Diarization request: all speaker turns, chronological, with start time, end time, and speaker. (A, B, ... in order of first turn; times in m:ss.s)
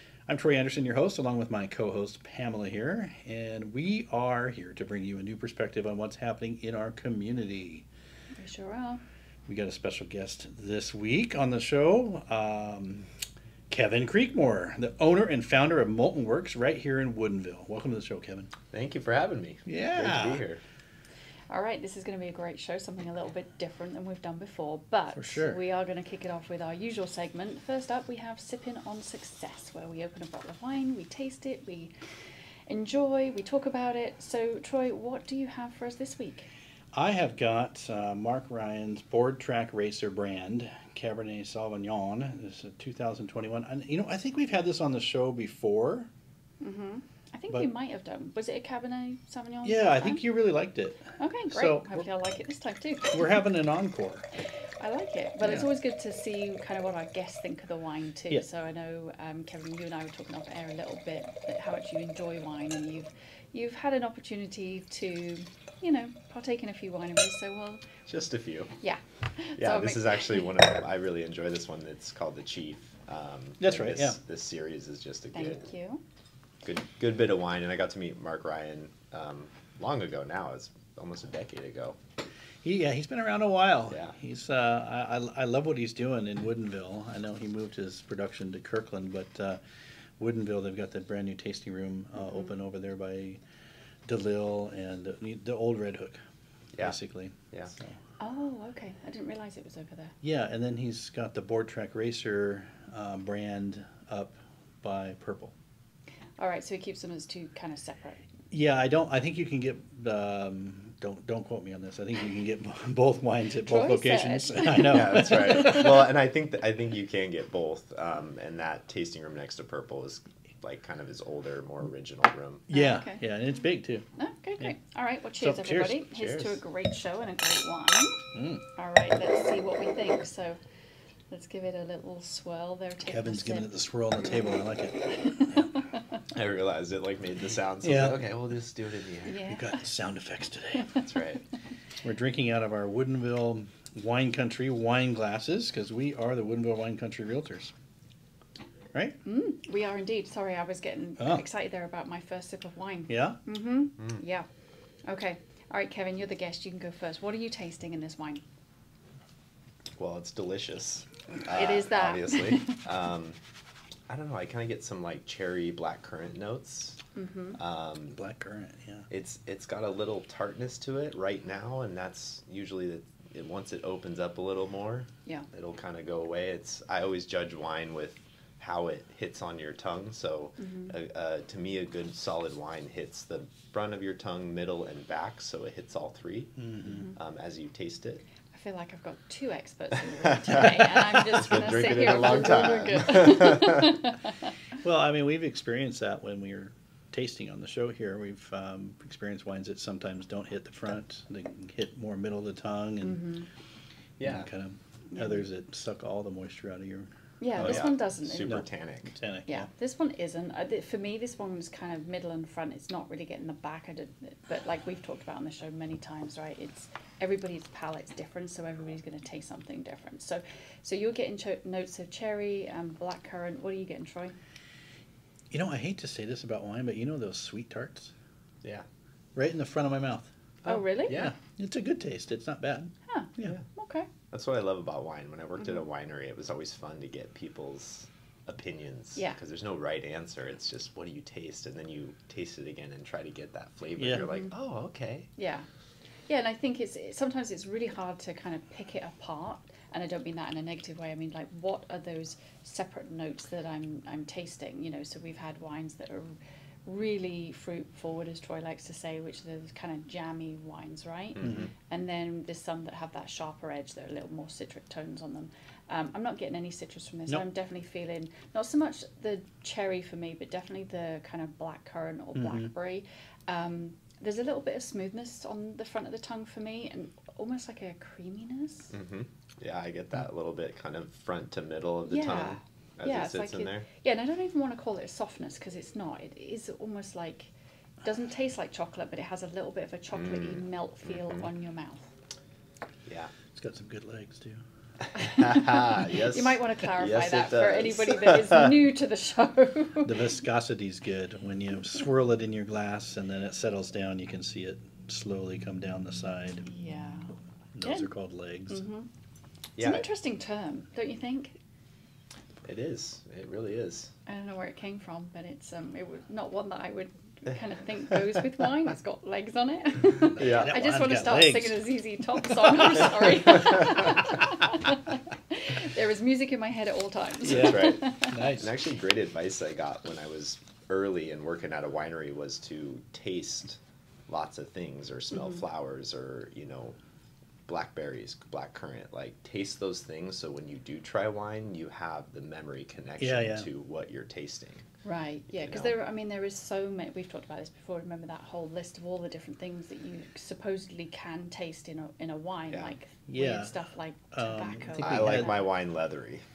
0:00.3-0:07.8 A
0:08.4-0:09.0 B
0:09.5-0:13.1 A
0:13.7-0:18.5 A
0:18.7-0:20.6 C
0:19.7-0:20.4 A
0:21.5-0:31.9 B
0:25.2-0:25.6 A
0:32.7-0:36.5 B
0:36.9-0:46.1 A
0:46.6-0:50.2 B
0:49.6-0:52.1 A
0:51.2-0:53.2 B
0:53.1-0:54.3 A
0:54.8-1:07.8 B
1:08.1-1:08.7 C
1:08.8-1:10.4 B
1:09.6-1:15.7 C
1:13.6-1:14.2 A
1:15.3-1:16.0 B
1:16.6-1:22.0 C
1:22.6-1:29.6 A
1:23.9-1:24.2 C
1:30.2-1:33.4 A
1:32.2-1:32.6 B
1:34.1-1:36.2 A
1:36.8-1:38.0 A
1:38.2-1:40.1 B
1:40.2-1:45.5 A
1:46.4-1:48.2 B
1:48.5-1:55.9 A
1:53.6-1:55.9 B
1:54.8-2:02.7 C
2:02.7-2:04.1 A
2:02.7-2:03.2 B
2:04.2-2:08.2 B
2:05.4-2:06.6 A
2:06.2-2:06.5 C
2:08.4-2:08.6 A
2:08.8-2:10.6 B
2:11.3-2:13.7 B
2:13.1-2:15.7 A
2:15.3-2:15.8 B
2:16.3-2:19.4 C
2:17.8-2:18.2 A
2:19.3-2:19.8 B
2:19.5-2:20.9 A
2:21.0-2:21.4 C
2:22.0-2:27.7 A
2:29.2-2:34.5 B
2:31.2-2:31.4 A
2:33.1-2:33.4 A
2:35.1-2:38.4 B
2:40.0-2:43.4 C
2:41.5-2:42.8 B
2:44.1-2:47.0 C
2:47.2-2:47.6 B
2:47.6-2:48.2 C
2:48.2-2:49.1 A
2:49.1-3:08.2 C
3:00.6-3:00.9 B
3:06.6-3:07.1 A
3:08.5-3:14.3 B
3:10.2-3:14.0 C
3:14.8-3:23.3 A
3:23.0-3:23.5 B
3:24.2-3:24.5 C
3:24.2-3:28.7 A
3:25.1-3:25.4 B
3:27.4-3:28.5 B
3:27.6-3:29.2 C
3:29.2-3:29.7 A
3:29.5-3:44.4 B
3:45.5-3:48.1 A
3:49.4-3:50.3 A
3:50.6-3:51.3 C
3:50.7-3:51.2 B
3:51.1-3:53.6 A
3:53.1-3:54.1 B
3:54.3-4:05.3 C
4:04.0-4:04.3 A
4:04.2-4:04.5 B
4:05.4-4:05.7 B
4:06.3-4:38.9 B
4:21.4-4:21.7 C
4:21.4-4:21.7 A
4:32.4-4:32.7 A
4:38.9-4:43.9 C
4:42.1-4:47.5 B
4:48.0-4:52.1 B
4:50.2-4:51.5 C
4:53.1-4:53.3 C
4:53.6-4:54.6 A
4:55.2-4:58.7 C
4:55.2-5:00.2 B
5:00.0-5:06.7 A
5:06.7-5:08.1 B
5:07.8-5:08.8 A
5:08.7-5:09.1 B
5:09.8-5:10.0 C
5:09.8-5:11.6 B
5:12.6-5:14.1 C
5:14.3-5:28.4 B
5:20.3-5:20.8 C
5:20.4-5:21.9 A
5:22.7-5:23.0 A
5:27.4-5:37.0 C
5:27.5-5:28.7 A
5:37.7-5:44.9 C
5:43.2-5:43.7 A
5:45.0-5:55.6 B
5:45.5-5:45.9 C
5:53.3-5:55.5 A
5:55.0-5:56.4 C